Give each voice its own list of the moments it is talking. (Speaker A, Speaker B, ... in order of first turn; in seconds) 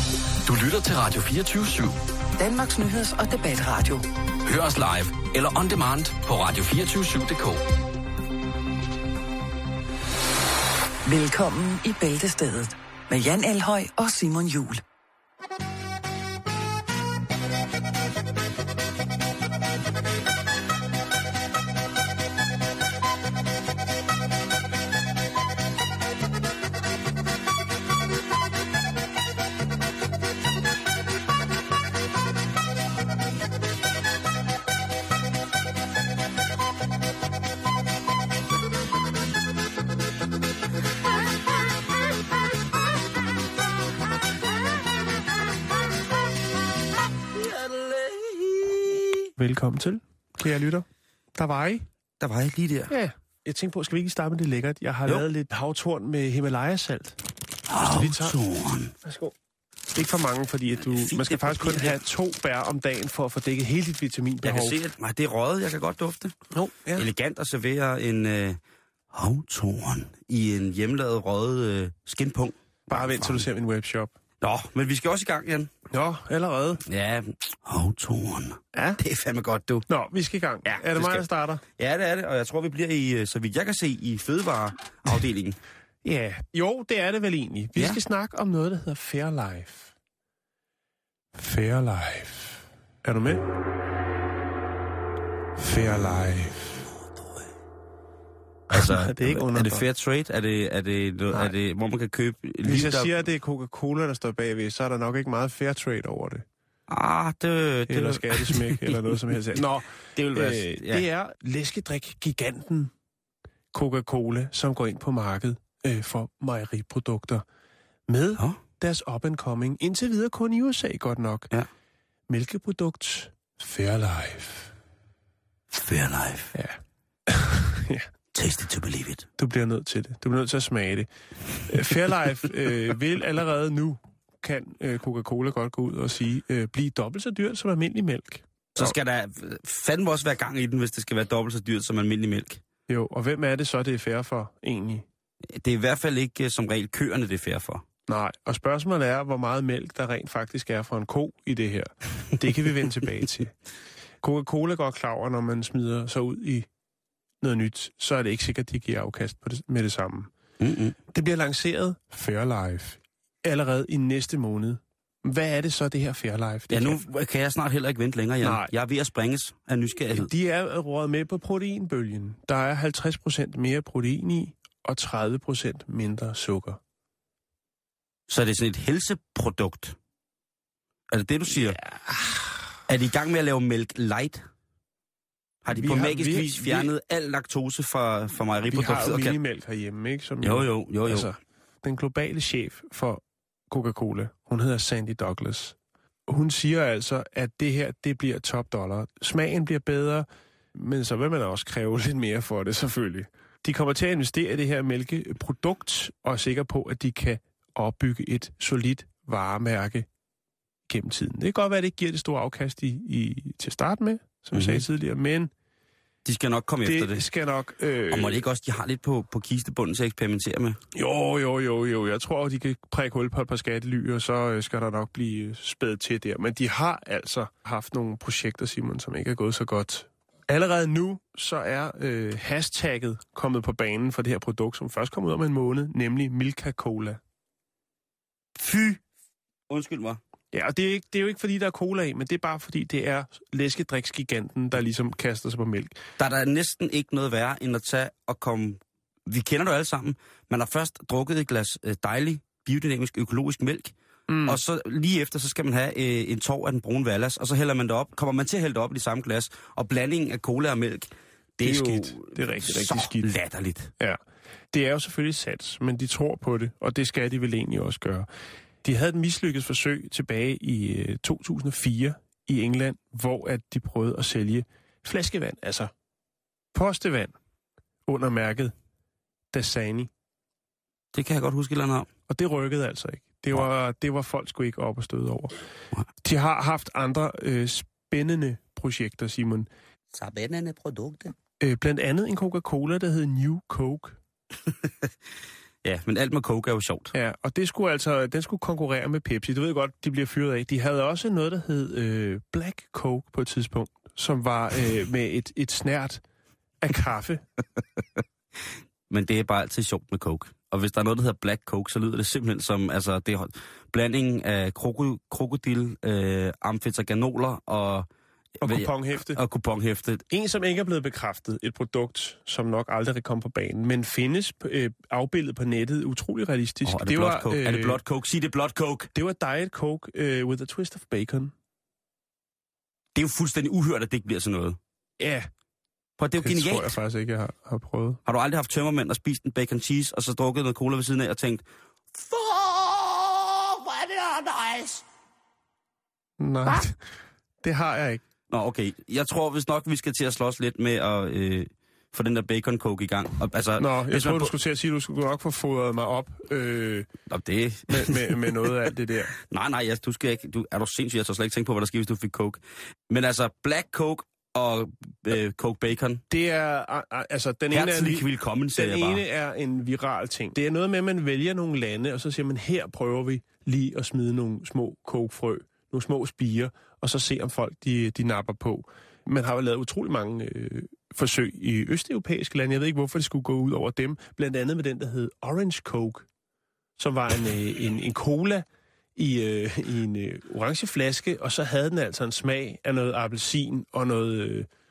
Speaker A: 0.5-2.0, 4.5-7.6
Speaker B: 2.4-4.0, 11.1-14.8
Speaker C: 47.3-49.3, 52.2-52.9, 57.7-58.9, 60.8-62.0, 64.4-66.4, 66.9-68.6, 69.1-73.5, 74.4-75.7, 76.8-79.9, 80.6-85.6, 98.7-103.2, 106.9-111.0, 125.7-126.5, 128.3-129.3, 138.7-142.6, 145.5-147.8, 160.6-160.9, 166.7-170.3, 178.3-179.9, 181.1-181.8, 182.9-184.5, 185.6-189.4, 190.4-191.3, 214.5-214.8, 216.2-217.2, 218.1-220.8, 238.6-239.0, 239.7-240.2, 246.2-253.9, 254.4-263.9, 281.1-282.1, 290.1-291.3, 294.7-295.1, 295.8-297.1, 309.1-318.1, 318.6-320.2, 326.8-329.1, 333.1-334.8, 336.2-337.0, 338.2-345.0, 348.5-354.5, 357.3-358.7, 359.3-366.2, 367.7-369.2
Speaker D: 49.4-51.9, 52.9-57.2, 57.9-58.4, 59.0-59.3, 59.9-64.8, 66.5-67.1, 72.9-74.1, 75.9-76.8, 78.7-79.0, 79.9-81.6, 86.0-89.9, 91.3-93.4, 95.6-96.8, 98.7-99.8, 102.6-106.4, 107.9-112.9, 113.7-117.4, 118.1-121.5, 122.3-124.7, 126.5-128.1, 129.4-138.9, 142.9-145.0, 148.1-153.5, 154.2-156.7, 157.4-160.3, 161.1-167.0, 168.4-168.7, 170.1-176.8, 181.6-182.8, 185.7-186.9, 188.7-195.8, 196.3-210.1, 210.9-215.5, 216.8-218.4, 220.9-237.2, 240.5-246.0, 254.3-254.6, 261.6-263.3, 264.7-268.3, 268.8-275.9, 276.7-277.3, 278.1-278.7, 279.5-280.1, 282.3-285.5, 286.2-289.7, 291.6-294.2, 297.1-306.2, 306.8-307.4, 318.6-319.4, 320.3-328.0, 329.1-331.5, 335.2-335.5, 336.4-338.2, 346.4-347.0, 347.6-348.2, 353.8-357.1, 357.9-359.3, 366.3-386.2, 387.0-388.6, 389.1-394.7